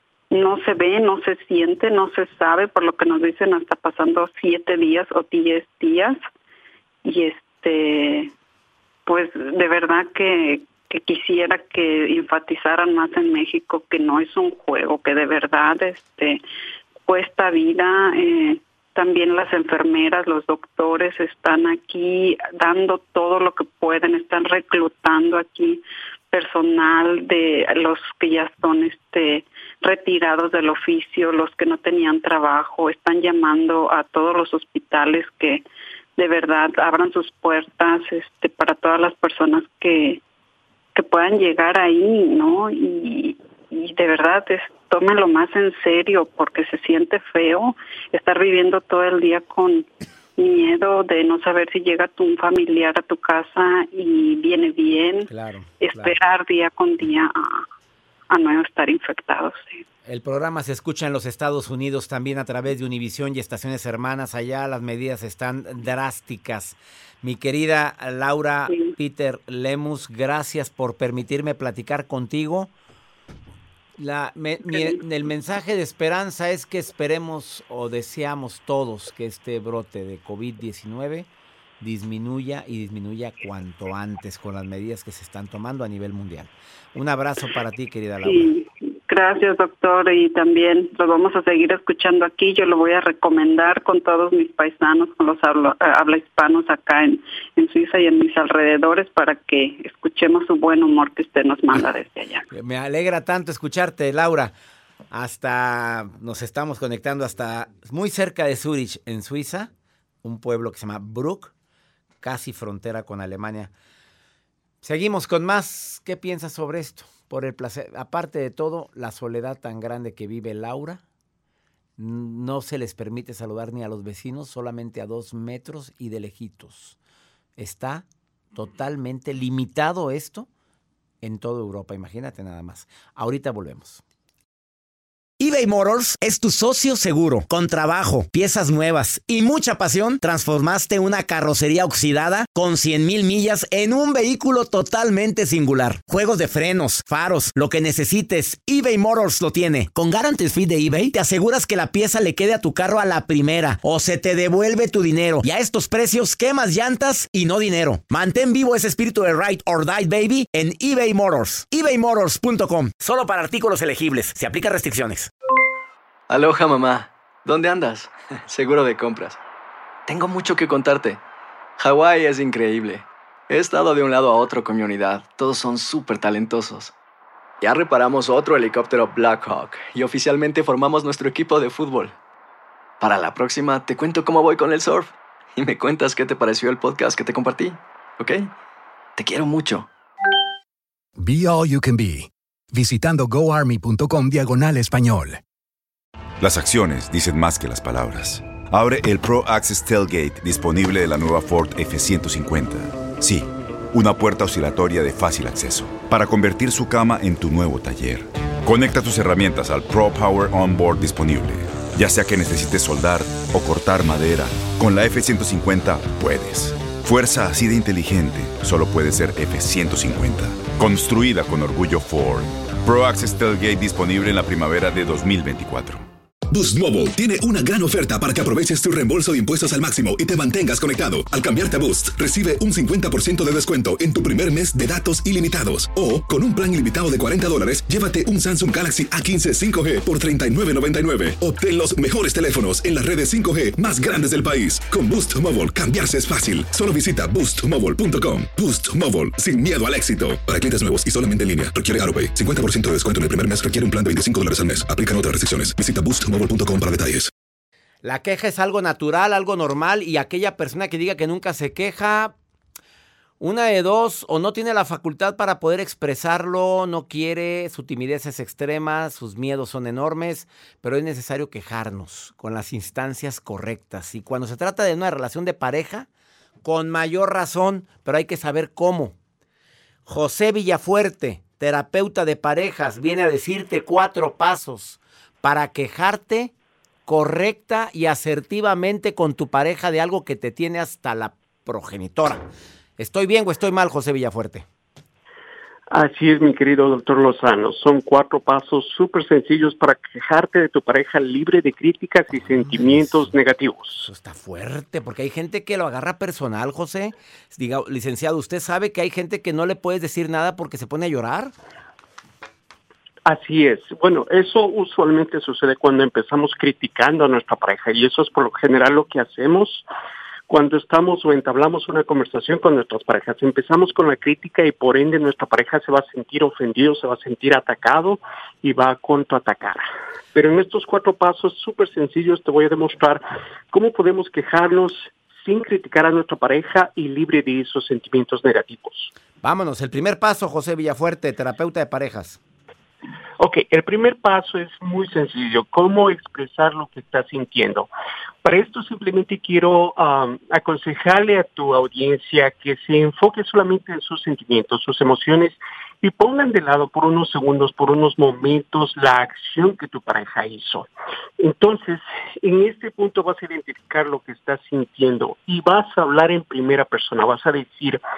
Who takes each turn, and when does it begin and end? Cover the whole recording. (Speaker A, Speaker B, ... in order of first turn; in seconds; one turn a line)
Speaker A: 0.3-6.2
Speaker A: 7.0-8.3
Speaker A: 9.1-16.4
Speaker A: 17.1-35.6
Speaker A: 36.2-40.2
Speaker A: 41.0-49.9
Speaker A: 50.4-57.6
Speaker B: 55.3-56.1
Speaker A: 58.3-59.8
Speaker B: 60.1-72.7
Speaker B: 74.0-81.3
Speaker B: 81.8-88.5
Speaker A: 88.2-102.5
Speaker B: 102.5-104.5
Speaker B: 105.1-109.7
Speaker B: 110.2-111.5
Speaker B: 112.2-113.7
Speaker B: 114.8-121.0
Speaker B: 122.0-127.0
Speaker B: 127.6-130.5
Speaker B: 131.2-134.0
Speaker B: 135.4-165.3
Speaker C: 166.3-169.4
Speaker C: 170.1-171.2
Speaker C: 171.8-176.9
Speaker C: 177.6-182.2
Speaker C: 183.0-188.5
Speaker C: 189.2-189.9
Speaker D: 191.2-195.4
Speaker E: 196.4-226.1
Speaker F: 226.5-257.3
Speaker B: 258.0-262.3
Speaker B: 263.4-276.1
Speaker B: 276.6-279.1
Speaker B: 280.1-286.5
Speaker B: 287.1-292.4
Speaker B: 293.0-294.6
Speaker G: 295.9-304.1
Speaker B: 302.3-303.3
Speaker B: 303.9-311.5
Speaker G: 313.3-319.9
Speaker G: 320.5-339.1
Speaker B: 339.4-342.4
Speaker G: 343.4-347.9
Speaker G: 348.4-360.9
Speaker G: 361.4-368.0